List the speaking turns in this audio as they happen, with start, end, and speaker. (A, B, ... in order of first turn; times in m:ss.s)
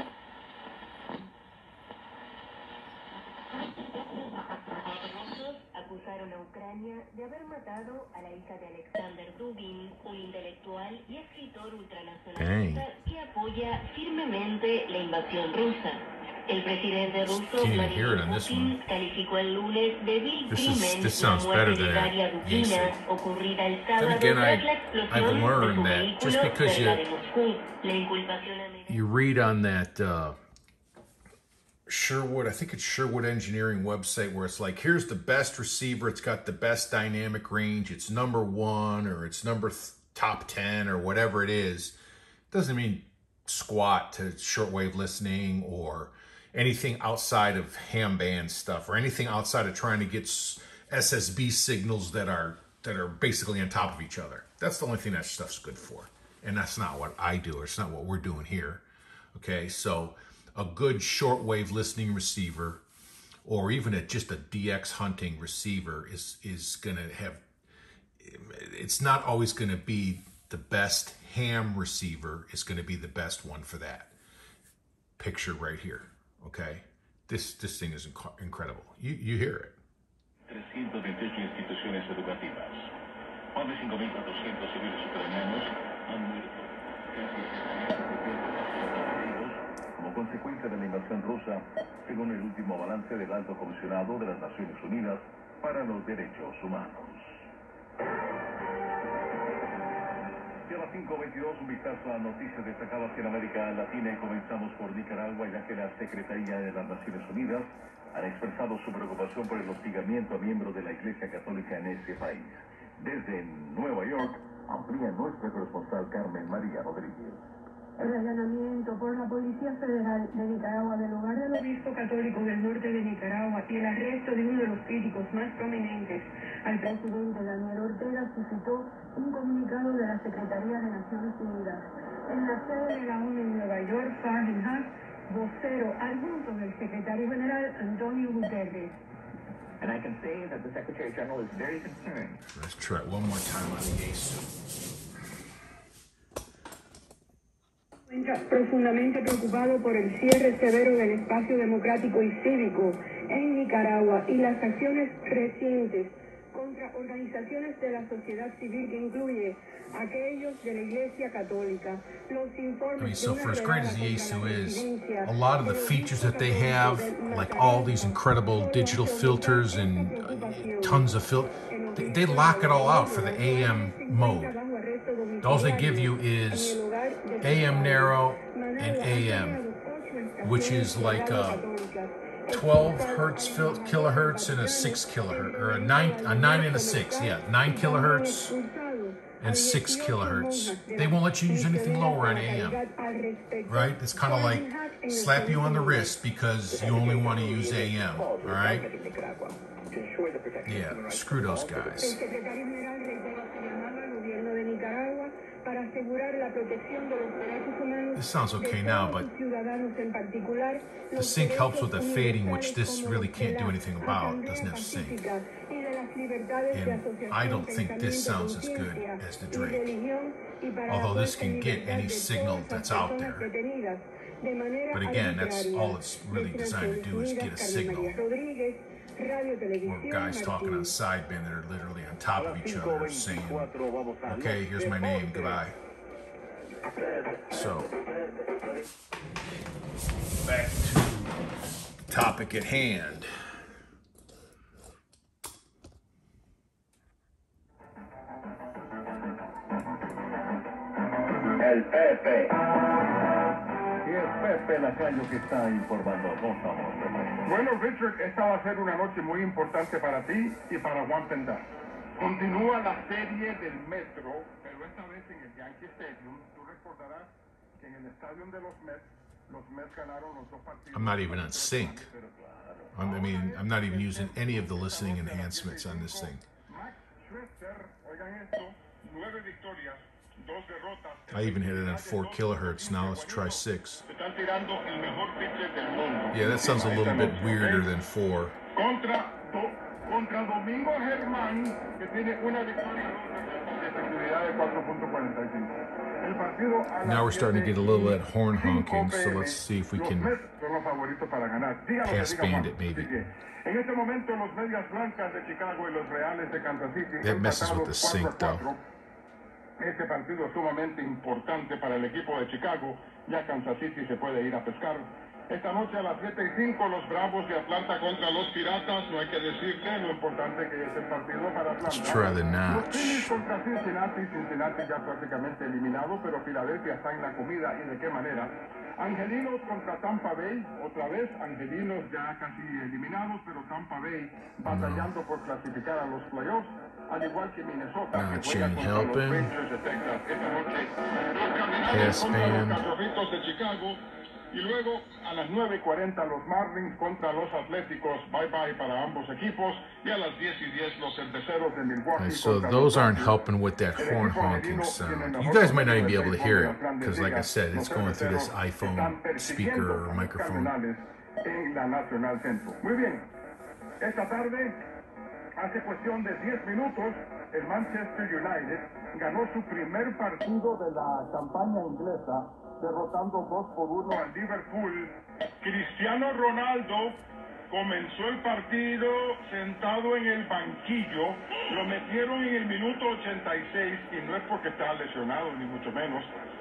0:04.8-0:29.0 A
0:12.4-0:12.8 B
0:17.3-0:18.8 B
0:20.5-0:23.0 B
0:24.0-0:27.0 B
0:28.9-0:30.4 B
0:31.9-0:42.0 B
0:42.5-1:02.8 B
1:03.4-1:07.4 B
1:08.2-1:14.1 B
1:15.2-1:19.8 B
1:20.5-1:22.8 C
1:23.6-1:26.6 C
1:27.1-1:37.4 C
1:40.7-1:57.4 C
1:58.0-2:19.0 D
2:19.8-2:22.4 E
2:22.5-2:24.5 B
2:28.1-2:51.1 D
2:43.0-2:54.6 B
2:51.7-3:16.2 D
2:55.4-2:56.8 B
2:57.4-2:59.6 B
3:00.4-3:01.7 B
3:02.5-3:08.5 B
3:09.4-3:12.8 B
3:13.7-3:18.9 B
3:16.7-3:22.0 E
3:20.7-3:22.2 B
3:22.0-3:50.9 D
3:28.2-3:29.3 B
3:31.2-3:35.2 B
3:36.7-3:39.9 B
3:40.9-3:43.5 B
3:44.9-3:48.2 B
3:49.8-3:55.8 B
3:52.4-3:55.6 C
3:57.5-3:57.9 B
4:00.4-4:01.3 B
4:02.1-4:03.6 B
4:11.6-4:12.5 C
4:14.0-4:17.4 C
4:17.4-4:21.6 F
4:22.2-4:32.0 F
4:30.9-4:32.1 B
4:31.7-4:33.1 C
4:32.9-4:36.4 B
4:33.0-4:47.9 F
4:41.3-4:44.0 B
4:46.3-4:48.6 B
4:48.8-5:08.8 F
4:57.0-5:00.4 B
5:02.0-5:03.2 B
5:07.2-5:08.7 B
5:09.8-5:44.0 F
5:21.9-5:23.4 B
5:34.7-5:35.1 B
5:38.1-5:39.5 B
5:41.9-5:42.8 B
5:44.5-5:53.4 F
5:52.2-6:00.7 B
5:54.0-6:03.3 F
6:04.0-6:04.8 F
6:05.6-6:17.2 F
6:17.7-6:26.3 F